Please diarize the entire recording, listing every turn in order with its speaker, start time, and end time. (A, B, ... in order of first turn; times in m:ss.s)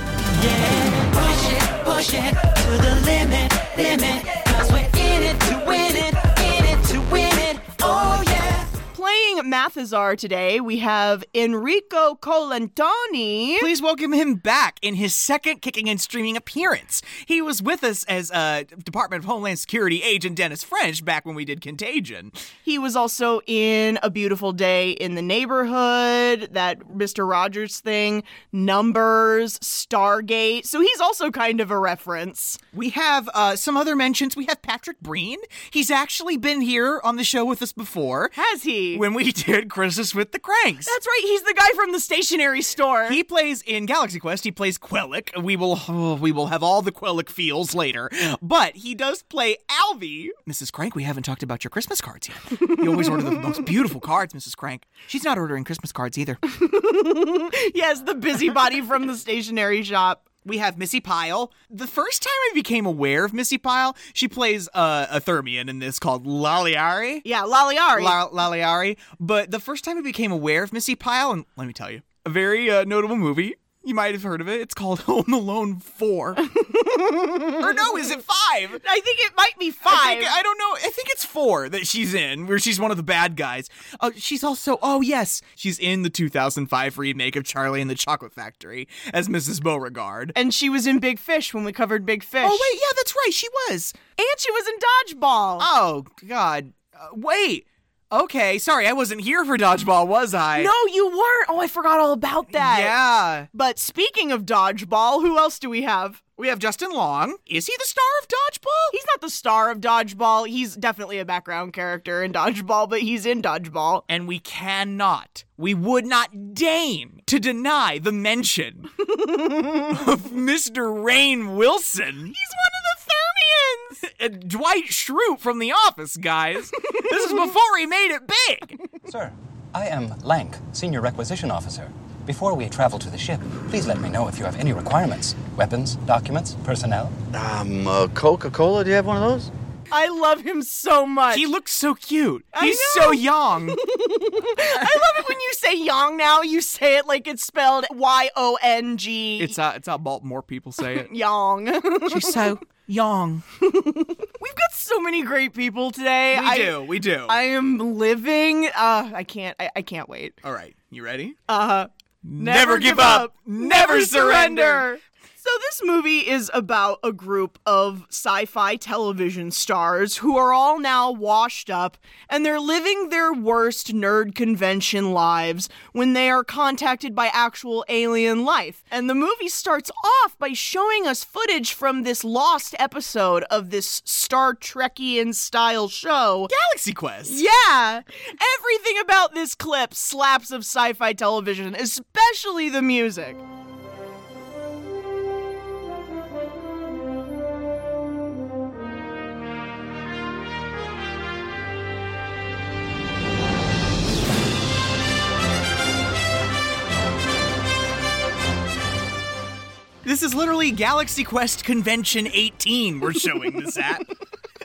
0:04.8-0:06.9 A
0:08.9-0:13.7 B
0:13.6-0:22.4 C
0:22.6-0:32.6 B
0:32.7-0:38.4 C
0:38.4-0:39.0 B
0:38.9-0:40.9 C
0:40.8-0:43.2 B
0:43.0-0:56.4 C
0:52.8-0:53.1 B
0:56.5-1:00.2 B
1:00.4-1:07.2 C
1:07.2-1:08.2 B
1:07.9-1:16.4 C
1:16.6-1:17.5 B
1:17.4-1:18.8 C
1:18.8-1:20.3 B
1:19.8-1:30.3 C
1:30.3-1:32.7 B
1:32.4-1:33.9 C
1:34.2-1:35.7 B
1:35.6-1:40.7 C
1:40.6-1:43.0 B
1:42.5-1:43.5 C
1:43.5-1:46.2 B
1:46.4-1:48.9 C
1:48.9-1:54.0 B
1:54.1-1:58.9 C
1:59.7-2:02.3 C
2:02.3-2:04.0 B
2:04.0-2:08.8 C
2:09.1-2:17.1 D
2:17.3-2:19.5 E
2:19.9-2:21.5 B
2:21.3-2:23.8 C
2:22.5-2:29.5 B
2:29.4-2:31.1 C
2:31.0-2:32.5 B
2:32.0-2:33.4 C
2:33.7-2:40.4 B
2:36.3-2:37.4 C
2:40.4-2:41.4 C
2:41.5-3:06.5 B
2:42.2-2:44.9 C
3:06.5-3:07.4 C
3:07.2-3:13.4 B
3:30.0-3:34.0 C